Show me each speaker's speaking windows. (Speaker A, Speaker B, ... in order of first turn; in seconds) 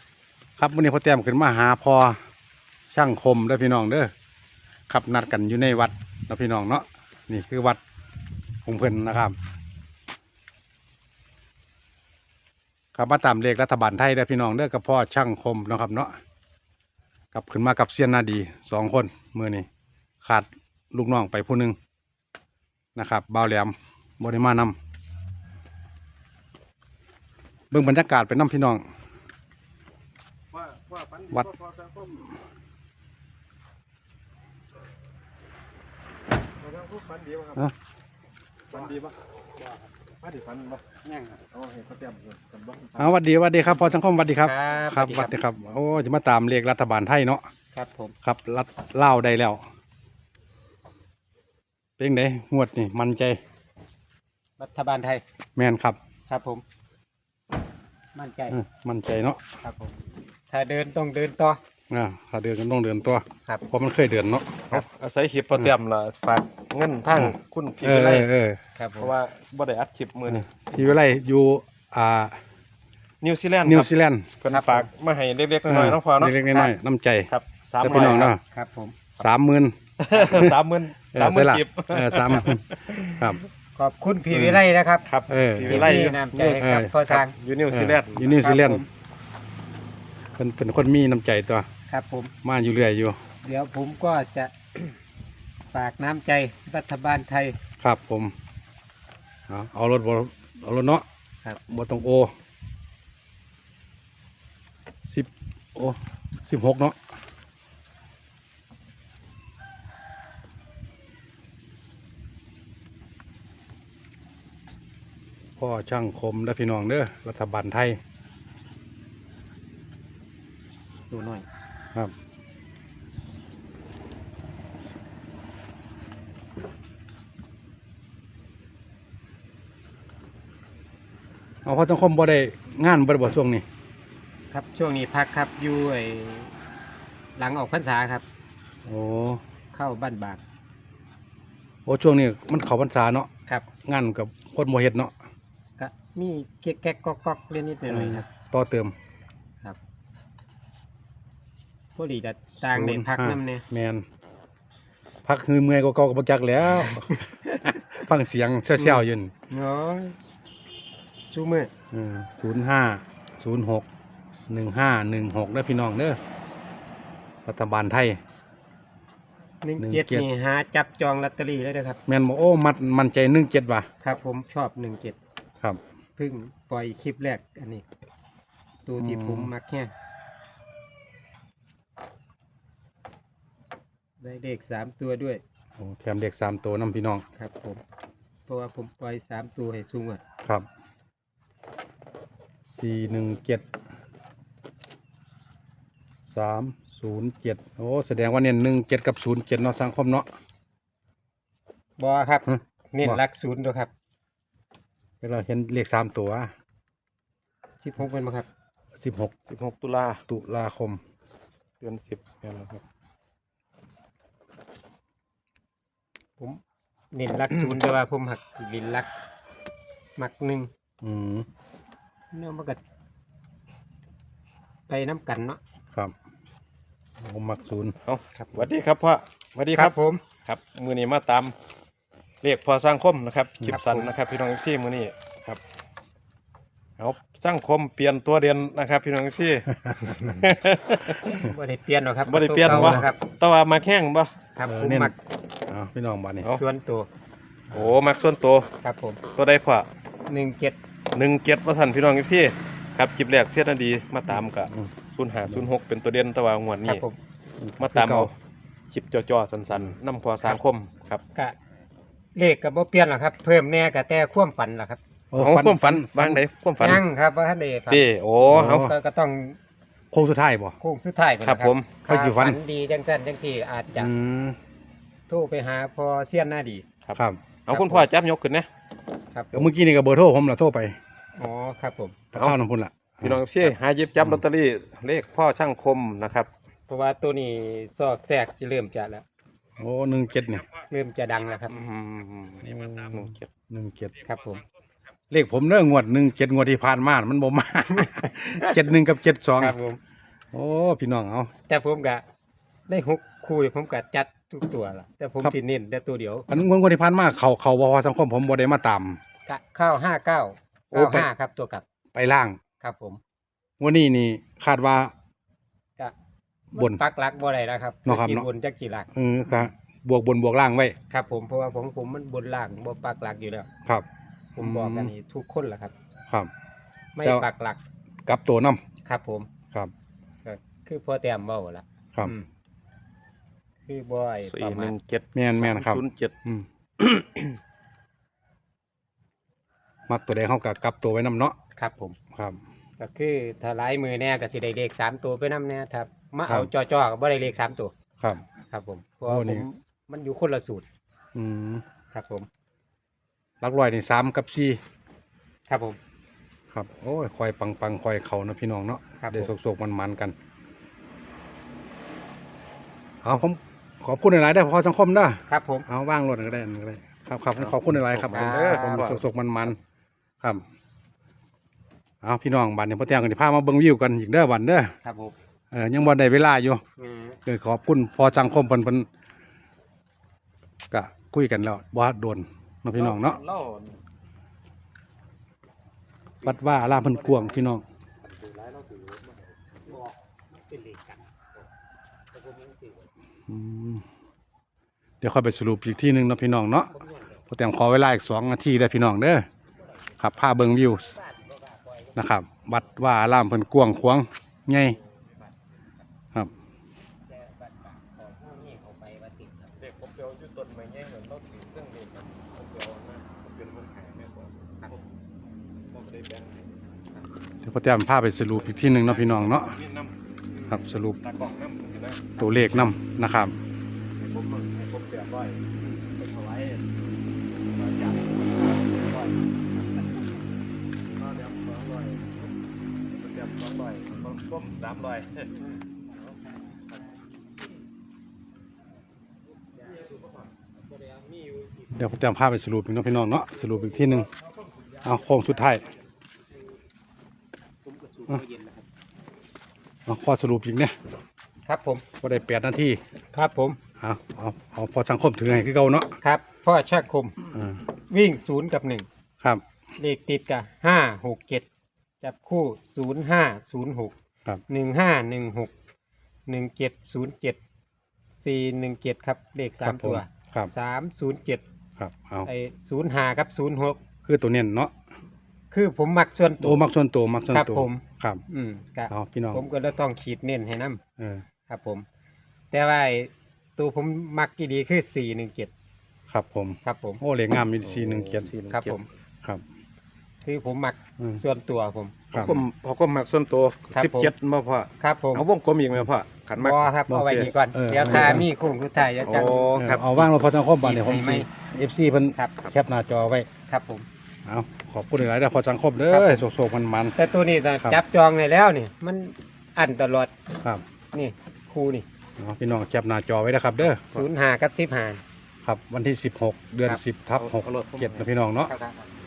Speaker A: 0.6-2.2, 2.9-4.1, 4.9-7.8, 8.7-9.3, 12.9-16.1, 17.3-19.7, 20.2-21.8, 23.0-24.8, 27.7-28.9, 43.0-47.5, 48.2-49.6, 52.0-53.4, 55.6-56.0, 58.5-59.4, 61.9-64.8, 67.1-68.6, 70.3-72.4, 73.6-74.4, 75.7-78.4, 79.2-80.6, 81.1-83.4, 84.3-84.6, 85.3-86.0, 86.6-86.9, 87.7-88.8, 90.4-91.7, 92.4-93.2, 97.8-98.3, 99.5-101.0, 101.7-102.3, 105.1-107.0, 115.6-118.0, 131.7-133.7, 138.9-139.4, 141.9-143.3, 143.9-145.1, 147.9-148.9, 152.6-154.1, 155.3-159.3, 161.9-163.9, 164.5-166.2, 167.5-168.2, 169.8-170.3, 172.1-173.9, 179.0-179.5, 185.8-187.2, 192.7-193.7, 196.2-200.3, 202.5-203.2, 205.2-206.5, 209.0-209.3, 210.3-211.0, 221.0-221.5, 227.2-228.0, 242.7-243.0, 244.6-245.1, 245.7-246.6, 257.6-258.3, 265.3-267.0, 268.5-268.9, 270.1-270.8, 272.1-272.6, 273.9-274.6, 277.2-277.4, 279.5-281.0, 282.3-284.4, 289.8-290.6, 292.6-294.2, 295.3-299.8, 300.5-301.5, 306.5-309.2, 310.9-311.3, 312.1-312.6, 313.8-315.1, 316.8-317.0, 318.1-318.5, 319.1-321.0, 324.6-325.1, 328.3-328.8, 335.4-336.7, 340.1-341.6, 342.3-342.6, 349.3-349.6, 351.4-351.8, 353.6-354.8, 356.7-360.4, 363.2-369.8, 372.2-374.9, 375.7-376.8, 377.5-379.1, 380.9-383.4, 386.4-387.8, 393.5-394.1, 395.2-396.9, 397.5-399.5, 400.2-401.1, 402.2-405.0, 417.6-419.8, 420.7-421.2, 422.4-423.6, 441.9-444.3, 445.0-445.9, 450.1-450.9, 452.2-453.0, 454.0-456.2, 457.5-457.8, 469.8-470.7, 472.0-472.5, 474.3-474.9, 476.6-478.4, 479.1-479.6, 481.2-481.4, 486.3-488.5, 492.3-492.7, 497.1-498.5, 499.3-503.5, 504.5-507.1, 512.4-514.0, 515.6-518.7
Speaker B: 30.5-32.2, 36.6-37.6, 38.7-39.1, 40.2-43.1, 64.7-68.3, 69.0-70.5, 73.2-76.4, 77.3-78.3, 80.0-83.4, 85.0-88.4, 209.5-210.2, 211.8-212.8, 228.1-229.9, 230.5-231.6, 232.4-235.6, 237.0-241.4, 242.3-244.3, 247.7-248.7, 249.3-249.9, 251.1-257.0, 257.8-258.3, 258.9-261.2, 265.4-267.0, 267.9-268.9, 271.4-271.9, 277.1-278.7, 283.2-286.5, 291.7-293.5, 334.4-336.4, 337.0-337.6, 367.6-369.2, 382.9-384.0, 386.4-387.7, 388.2-389.5, 409.8-415.0, 415.9-416.8, 418.6-420.6, 421.2-422.4, 424.2-425.6, 426.1-426.9, 427.7-429.4, 431.2-432.4, 433.1-435.5, 487.8-489.0, 492.3-497.5, 499.2-500.3, 517.4-518.3
Speaker C: 44.4-45.3, 47.7-48.1, 54.6-55.2, 56.3-56.6, 58.1-58.6, 59.6-59.9, 60.5-61.6, 68.8-69.1, 74.5-74.9, 77.9-79.0, 83.8-85.1, 85.6-87.3, 88.4-88.9, 91.9-92.3, 93.4-94.9, 95.7-97.6, 121.1-121.5, 134.5-136.6, 137.4-138.2, 139.7-140.4, 145.8-148.3, 152.0-153.6, 158.8-160.2, 161.3-161.7, 169.6-172.0, 174.0-175.2, 176.2-177.9, 178.9-179.9, 184.2-185.4, 187.3-187.8, 188.5-190.2, 202.0-203.9, 207.8-208.5, 217.1-219.1, 220.2-220.7, 222.3-222.8, 224.9-225.6, 229.7-230.2, 233.7-234.1, 241.3-243.2, 244.6-245.1, 246.5-247.1, 248.8-249.2, 250.3-250.8, 256.9-257.2, 262.4-265.0, 266.8-269.6, 270.8-274.1, 275.3-276.9, 277.7-278.1, 279.3-279.7, 281.4-282.2, 286.9-289.2, 290.9-291.8, 294.2-294.6, 298.4-298.9, 299.6-300.0, 301.7-302.2, 302.9-306.5, 309.5-311.8, 312.8-313.2, 316.8-319.1, 321.1-323.7, 324.6-325.9, 327.2-327.8, 329.1-329.5, 330.4-332.5, 333.9-334.9, 341.8-342.2, 343.0-347.9, 348.5-350.9, 352.1-352.5, 355.7-356.0, 359.2-359.5, 365.5-365.9, 368.3-369.1, 375.0-375.4, 377.0-377.4, 389.9-391.5, 392.3-393.1, 396.9-397.4, 401.0-402.1, 407.3-409.7, 435.6-436.6, 441.0-441.8, 447.8-448.9, 451.7-452.1, 453.3-453.8, 456.2-457.4, 458.1-459.1, 460.0-461.7, 462.2-464.1, 464.7-465.7, 466.5-467.6, 468.4-471.6, 472.4-474.0, 475.7-476.9, 477.5-481.0, 481.7-482.1, 482.7-485.7, 486.8-487.2, 488.7-489.1, 490.4-492.1, 493.9-494.3, 495.0-495.4, 496.6-500.0, 500.8-501.5, 502.4-502.7, 503.7-504.1, 506.1-506.5, 507.2-510.3, 511.1-512.1, 514.1-515.2, 518.7-519.0